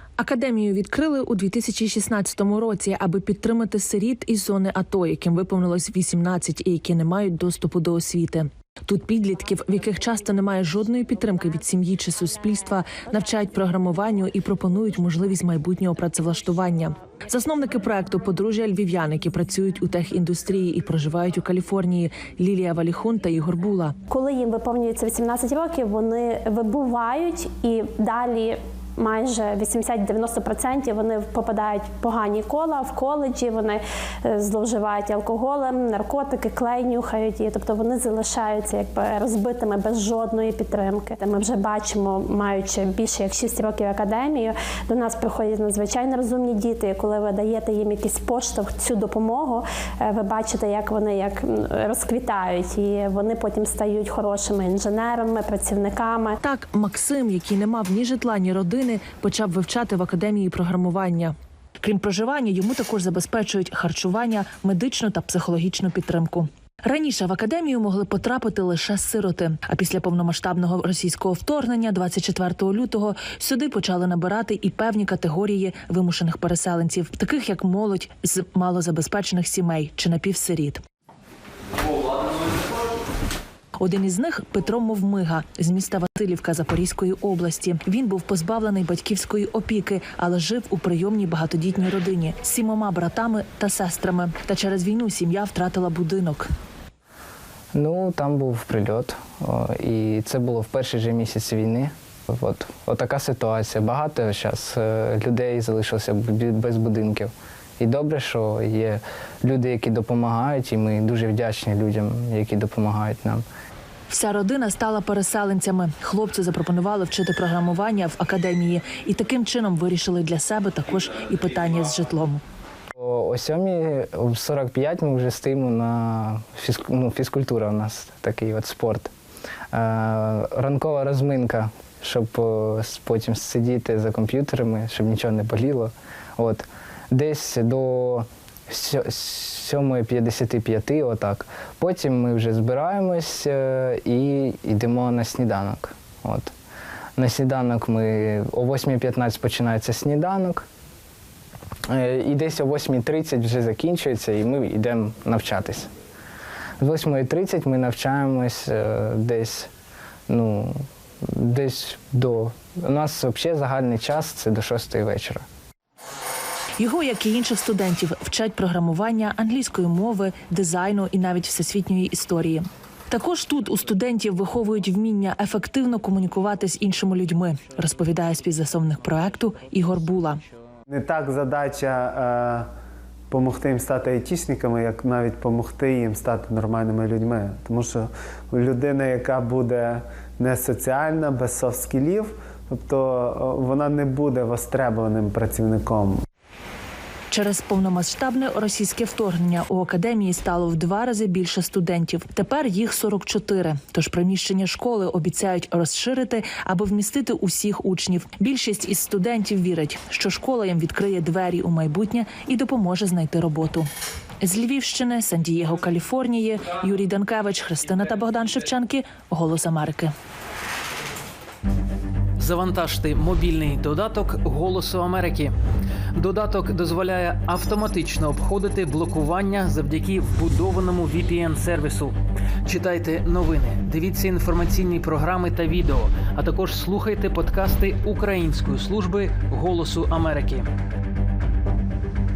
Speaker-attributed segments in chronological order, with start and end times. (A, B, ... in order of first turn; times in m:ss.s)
0:00.2-0:24.0 A
0:24.1-0:56.4 B
0:56.4-1:20.8 A
1:23.8-1:36.5 A
1:37.7-1:53.4 C
1:54.1-2:02.4 A
2:03.0-2:09.1 C
2:09.7-2:26.5 C
2:27.2-2:30.6 C
2:31.9-2:35.9 C
2:36.8-2:39.7 C
2:40.3-2:45.4 C
2:46.8-3:00.4 A
3:00.9-3:02.7 D
3:03.3-3:16.2 D
3:17.3-3:33.9 A
3:34.4-3:40.1 A
3:42.4-3:45.6 E
3:46.1-4:00.7 E